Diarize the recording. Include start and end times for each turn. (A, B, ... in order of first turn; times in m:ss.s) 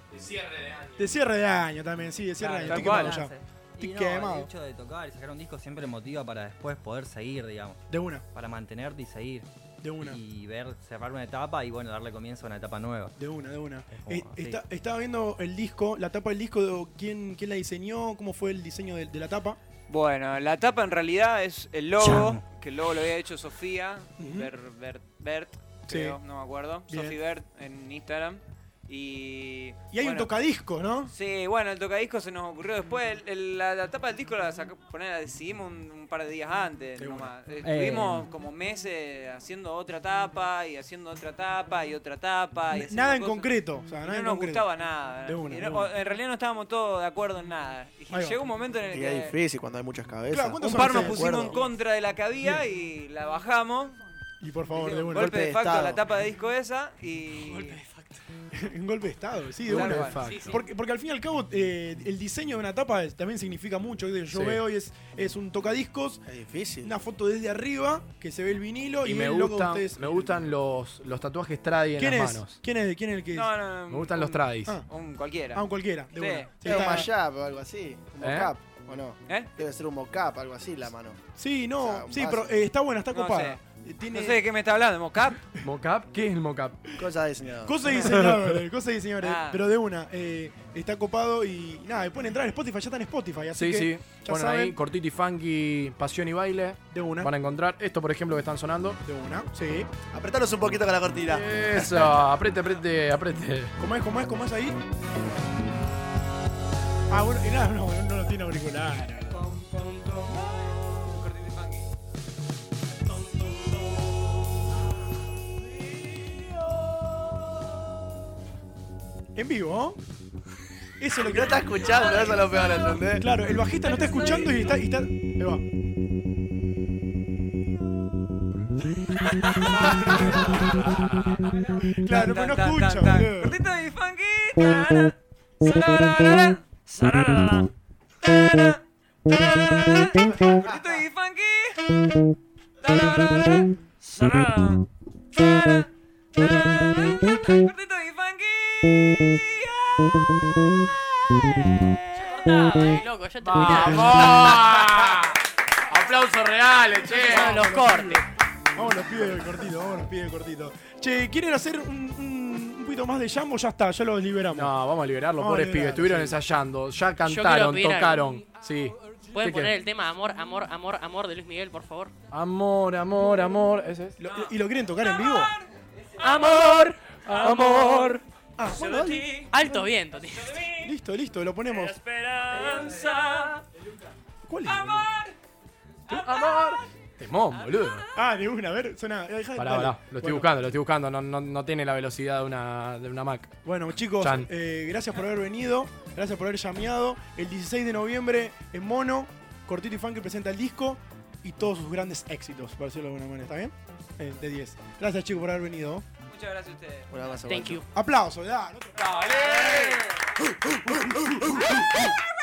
0:00.1-0:01.0 A
0:01.0-0:04.5 B
0:02.4-0:07.8 C
0:02.7-0:03.2 D
0:07.9-0:08.2 B
0:08.3-0:09.5 C
0:09.8-0:10.2 B
0:10.0-0:13.1 C
0:13.2-0:19.6 B
0:13.9-0:14.6 C
0:19.9-0:30.3 D
0:22.0-0:22.4 C
0:24.2-0:24.5 B
0:25.9-0:26.2 B
0:26.9-0:27.2 B
0:29.9-0:31.1 B
0:31.1-0:43.5 D
0:37.0-0:37.3 B
0:37.6-0:38.3 C
0:42.7-0:44.7 B
0:44.0-0:49.4 D
0:45.2-0:45.9 B
0:48.1-0:48.4 B
0:48.9-0:51.6 E
0:50.3-0:51.5 B
0:50.6-0:54.0 D
0:54.4-0:55.4 B
0:54.7-0:57.8 D
0:55.1-0:56.0 E
0:58.5-1:06.2 B
0:59.6-1:00.6 A
0:59.7-1:00.2 D
1:00.2-1:00.6 F
1:04.3-1:04.6 A
1:06.2-1:06.9 E
1:06.8-1:10.4 B
1:09.0-1:12.6 A
1:12.0-1:13.5 B
1:13.3-1:16.5 D
1:13.9-1:14.8 A
1:15.5-1:17.1 B
1:16.6-1:21.2 E
1:18.2-1:18.5 A
1:21.4-1:24.4 B
1:21.8-1:22.5 E
1:23.1-1:25.4 D
1:25.6-1:26.8 A
1:27.0-1:28.0 E
1:27.6-1:34.8 B
1:28.0-1:28.5 A
1:29.2-1:29.6 D
1:33.6-1:39.0 A
1:36.9-1:37.3 B
1:39.0-1:39.9 B
1:40.1-1:42.2 E
1:41.3-1:43.7 A
1:43.8-1:44.8 B
1:47.1-1:49.4 B
1:49.3-1:51.9 D
1:53.3-1:53.9 D
1:56.1-1:56.5 D
1:59.4-2:00.0 B
2:01.0-2:02.0 B
2:01.2-2:03.2 E
2:01.9-2:03.0 D
2:03.1-2:05.6 B
2:03.8-2:04.8 D
2:09.1-2:17.7 D
2:09.6-2:10.6 B
2:12.0-2:13.6 B
2:18.2-2:22.0 D
2:22.8-2:32.4 D
2:32.1-2:34.5 F
2:33.4-2:37.7 A
2:37.0-2:44.7 B
2:37.2-2:38.2 F
2:44.5-2:49.8 A
2:45.4-2:46.4 B
2:47.2-2:48.4 F
2:49.3-2:52.1 F
2:52.3-2:54.2 A
2:54.2-2:55.5 B
2:54.2-2:55.7 D
2:56.2-2:58.2 F
2:56.2-2:56.5 D
2:57.3-2:57.8 A
2:58.6-3:00.0 B
2:58.6-2:59.5 D
2:59.5-3:00.6 F
3:00.4-3:00.9 D
3:00.8-3:02.0 B
3:01.7-3:03.6 D
3:04.4-3:05.1 B
3:04.6-3:05.3 D
3:06.1-3:06.4 B
3:06.1-3:08.0 A
3:08.1-3:10.5 B
3:09.6-3:13.5 A
3:13.6-3:26.0 B
3:14.2-3:14.5 A
3:26.3-3:27.1 D
3:27.1-3:27.8 E
3:27.4-3:27.9 F
3:27.9-3:29.7 B
3:29.0-3:30.0 D
3:30.9-3:31.8 B